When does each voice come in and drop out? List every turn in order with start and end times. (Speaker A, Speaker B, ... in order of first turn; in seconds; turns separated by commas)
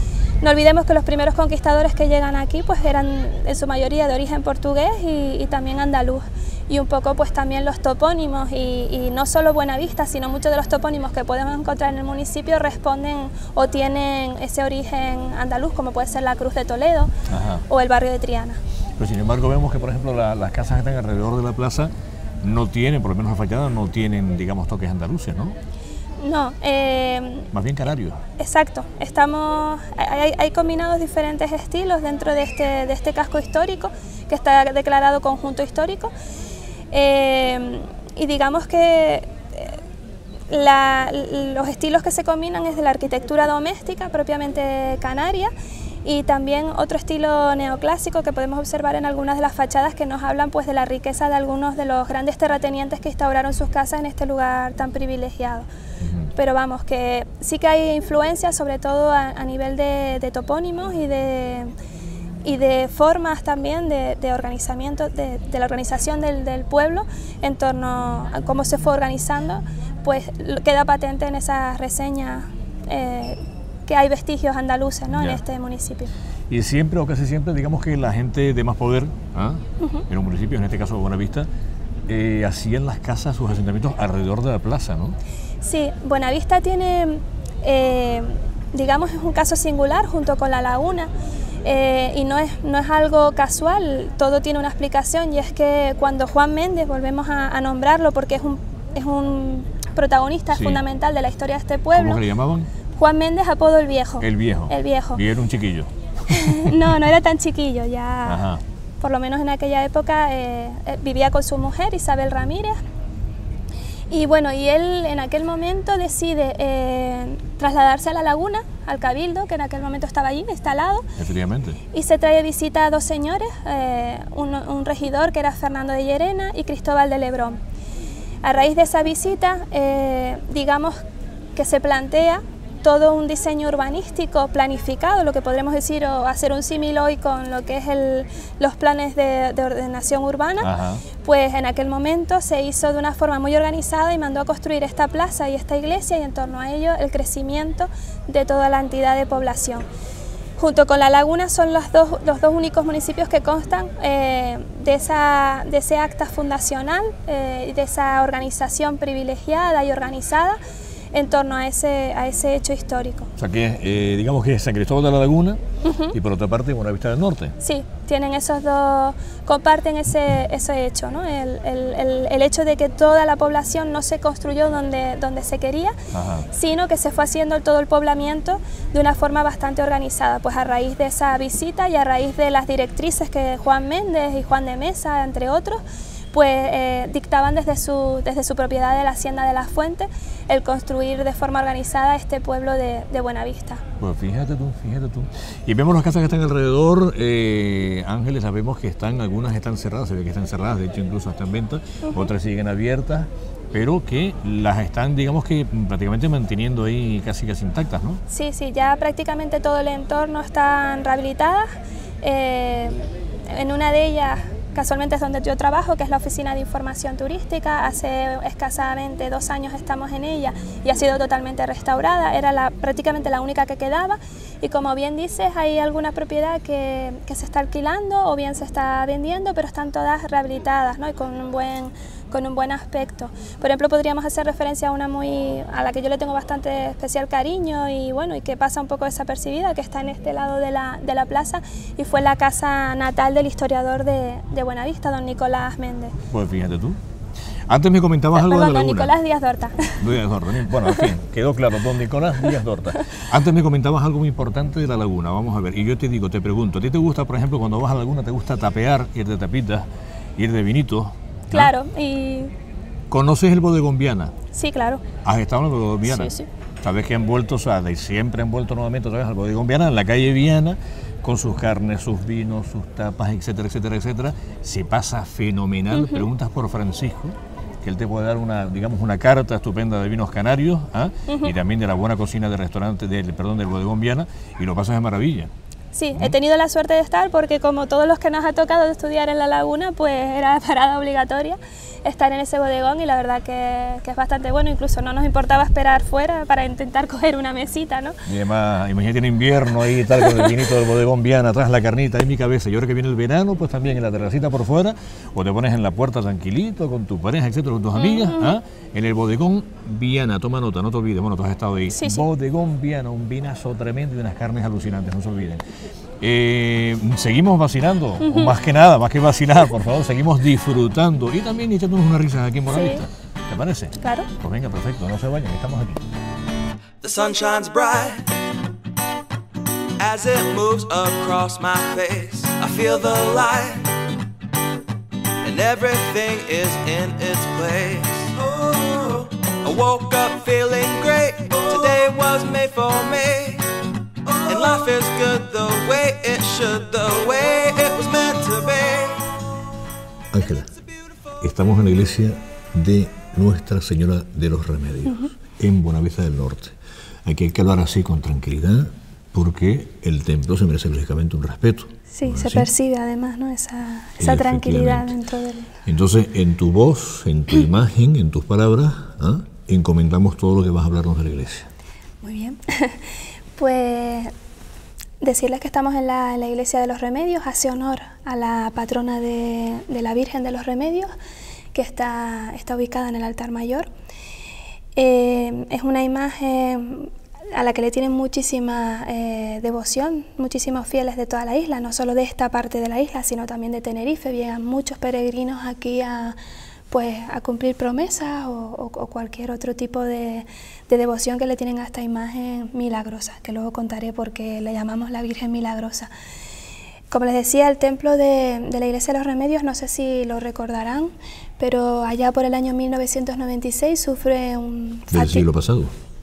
Speaker A: 0.4-17.1, Speaker B: 17.3-17.6, Speaker A: 17.7-18.6, Speaker B: 19.0-21.9, Speaker B: 22.4-25.6, Speaker A: 26.2-27.5, Speaker B: 27.5-28.2, Speaker A: 28.4-36.1, Speaker A: 36.9-39.8, Speaker A: 40.5-45.5, Speaker A: 46.0-55.7, Speaker B: 56.0-56.3, Speaker A: 56.3-61.7, Speaker A: 62.4-76.1, Speaker B: 75.1-75.4, Speaker B: 76.5-81.5, Speaker A: 79.8-80.0, Speaker B: 82.1-85.2, Speaker A: 85.6-91.1, Speaker A: 91.6-102.2, Speaker B: 100.5-100.8, Speaker B: 101.9-102.7, Speaker A: 103.0-105.2, Speaker B: 104.2-106.9, Speaker A: 106.3-108.4, Speaker B: 108.3-108.6, Speaker A: 109.0-112.8, Speaker A: 114.1-121.1, Speaker B: 121.2-121.8, Speaker A: 121.9-127.6, Speaker A: 128.4-131.0, Speaker A: 131.6-140.7, Speaker B: 140.6-141.0, Speaker A: 141.2-149.8, Speaker A: 150.6-160.6, Speaker A: 161.1-163.3, Speaker B: 163.4-165.6, Speaker A: 165.8-166.1, Speaker B: 166.1-167.6, Speaker A: 167.6-175.9, Speaker B: 176.1-176.5, Speaker A: 176.5-185.8, Speaker A: 186.3-193.8, Speaker B: 194.0-208.2, Speaker A: 208.3-211.7, Speaker A: 212.2-246.1, Speaker B: 246.3-247.0, Speaker B: 247.7-249.1, Speaker A: 248.3-250.2, Speaker B: 250.0-259.9, Speaker A: 250.8-251.1, Speaker A: 252.5-253.2, Speaker B: 260.4-261.7, Speaker A: 261.5-262.5, Speaker B: 263.1-264.3, Speaker A: 264.5-265.0, Speaker B: 265.2-285.5, Speaker A: 266.0-266.5, Speaker A: 275.9-276.2, Speaker A: 281.3-281.5, Speaker A: 285.9-298.2, Speaker B: 298.2-315.6, Speaker A: 300.1-300.6, Speaker A: 307.9-308.6, Speaker A: 311.9-312.2, Speaker B: 316.2-326.0, Speaker A: 318.2-318.5, Speaker A: 322.7-323.0, Speaker A: 324.0-324.3, Speaker C: 327.0-328.3, Speaker C: 330.0-333.9, Speaker C: 335.4-343.7, Speaker C: 344.4-349.2, Speaker B: 350.3-350.7, Speaker C: 350.4-351.4, Speaker B: 351.4-362.7, Speaker A: 355.0-355.3, Speaker A: 362.1-365.7, Speaker B: 364.2-365.2, Speaker B: 365.9-371.7, Speaker A: 372.2-374.3, Speaker A: 375.2-381.1, Speaker A: 381.7-383.9, Speaker A: 384.9-396.4, Speaker A: 396.9-406.1, Speaker A: 407.1-415.5, Speaker B: 415.1-415.9